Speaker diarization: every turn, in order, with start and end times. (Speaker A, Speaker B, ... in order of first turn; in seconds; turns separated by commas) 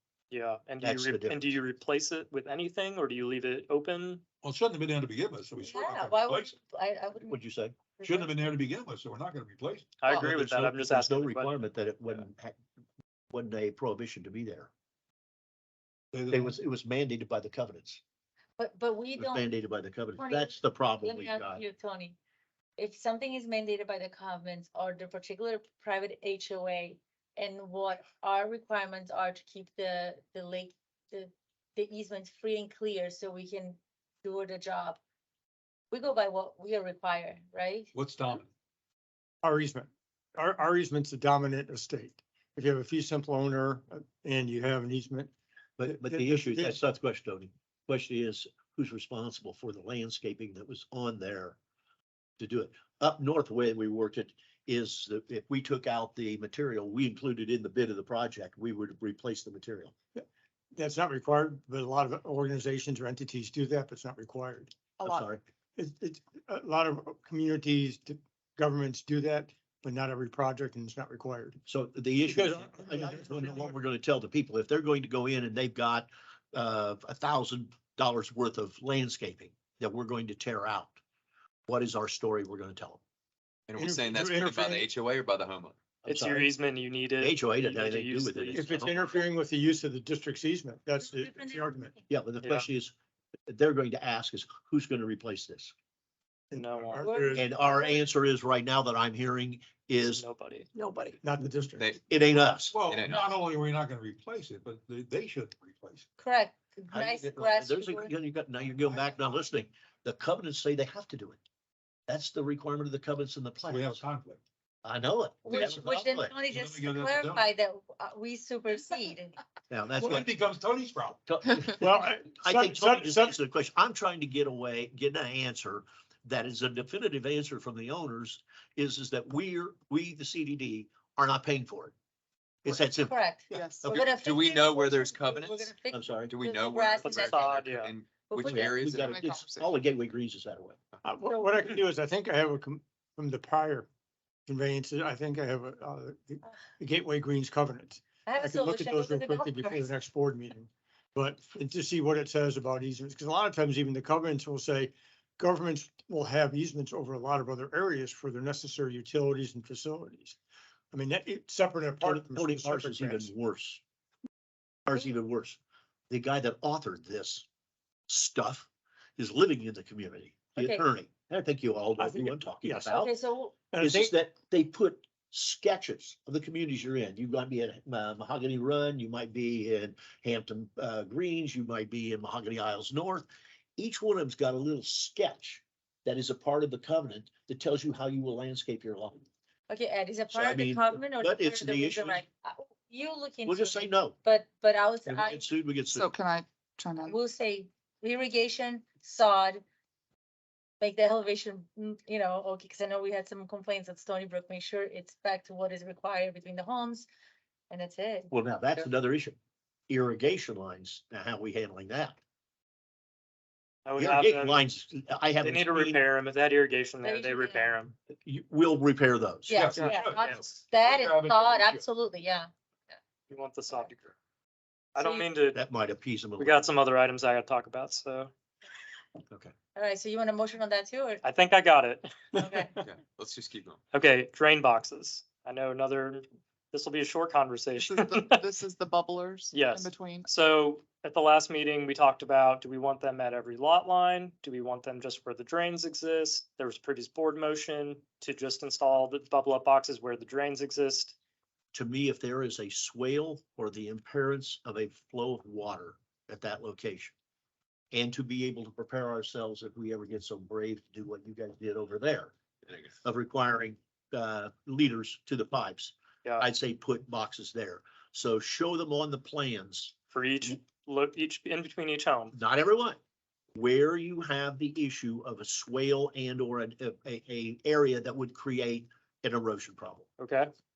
Speaker A: 0.3-4.2, Speaker B: 0.8-1.6, Speaker C: 4.4-6.5, Speaker D: 5.6-7.4, Speaker B: 7.2-7.8, Speaker D: 8.0-8.3, Speaker C: 8.0-9.9, Speaker A: 10.0-11.5, Speaker B: 10.1-12.6, Speaker B: 13.3-14.7, Speaker C: 16.1-16.6, Speaker B: 16.3-18.0, Speaker D: 18.6-19.5, Speaker B: 19.2-21.6, Speaker D: 20.2-22.2, Speaker D: 22.8-35.0, Speaker D: 35.9-37.9, Speaker C: 37.9-38.5, Speaker E: 39.4-45.3, Speaker B: 45.8-51.6, Speaker E: 45.9-46.8, Speaker B: 52.4-59.9, Speaker E: 60.8-64.8, Speaker F: 65.0-65.3, Speaker B: 65.0-65.4, Speaker E: 65.8-71.6, Speaker B: 71.7-81.0, Speaker E: 72.3-73.8, Speaker B: 81.7-83.0, Speaker G: 83.7-85.8, Speaker E: 83.8-84.8, Speaker C: 84.1-84.7, Speaker B: 86.0-86.5, Speaker A: 86.1-88.6, Speaker B: 87.2-89.1, Speaker E: 88.6-91.8, Speaker D: 91.0-91.9, Speaker B: 92.1-92.9, Speaker B: 93.5-95.7, Speaker C: 96.5-97.5, Speaker A: 96.6-97.1, Speaker D: 97.0-98.0, Speaker B: 97.3-100.2, Speaker A: 100.1-100.7, Speaker D: 100.8-101.1, Speaker C: 101.2-101.8, Speaker E: 101.5-101.8, Speaker G: 101.8-102.0, Speaker B: 102.1-102.7, Speaker C: 102.7-106.0, Speaker G: 102.8-103.3, Speaker D: 106.2-108.1, Speaker B: 106.9-111.4, Speaker B: 112.1-114.0, Speaker C: 113.6-114.4, Speaker B: 114.8-116.3, Speaker D: 115.5-119.4, Speaker C: 116.5-117.5, Speaker B: 119.7-120.3, Speaker C: 119.9-121.2, Speaker B: 121.3-131.9, Speaker C: 121.8-123.2, Speaker E: 122.5-123.0, Speaker B: 132.7-133.1, Speaker D: 132.7-137.5, Speaker F: 133.5-133.9, Speaker G: 133.9-139.1, Speaker B: 135.9-136.3, Speaker A: 137.0-137.9, Speaker D: 138.3-138.8, Speaker B: 138.4-140.8, Speaker F: 138.9-139.7, Speaker E: 141.1-143.9, Speaker E: 144.5-160.4, Speaker D: 148.2-149.9, Speaker E: 160.9-163.3, Speaker B: 162.0-163.8, Speaker B: 164.9-165.6, Speaker B: 166.1-167.4, Speaker B: 168.1-173.1, Speaker D: 170.6-170.8, Speaker E: 172.0-172.4, Speaker D: 172.8-173.6, Speaker C: 173.7-174.1, Speaker B: 173.8-189.2, Speaker D: 189.7-195.4, Speaker B: 190.3-192.2, Speaker B: 193.4-194.2, Speaker B: 195.1-196.1, Speaker F: 195.9-197.2, Speaker D: 197.1-199.6, Speaker D: 200.8-207.1, Speaker D: 207.7-208.8, Speaker B: 208.3-209.4, Speaker B: 209.9-212.2, Speaker A: 213.8-214.6, Speaker B: 214.0-216.0, Speaker A: 215.4-217.9, Speaker D: 217.0-217.8, Speaker B: 218.2-219.7, Speaker D: 219.5-222.5, Speaker C: 219.5-221.8, Speaker A: 220.2-220.4, Speaker A: 223.3-224.1, Speaker A: 224.9-225.6, Speaker D: 225.0-225.3, Speaker B: 225.5-226.7, Speaker A: 226.4-228.3, Speaker D: 229.8-231.2, Speaker A: 231.2-232.3, Speaker D: 232.3-232.8, Speaker G: 232.8-233.8, Speaker A: 233.9-238.4, Speaker F: 237.8-240.3, Speaker A: 239.5-251.2, Speaker B: 251.7-257.1, Speaker B: 257.9-262.3, Speaker B: 262.9-269.9, Speaker A: 270.1-272.4, Speaker B: 272.3-273.0, Speaker B: 273.6-280.1, Speaker A: 280.2-280.5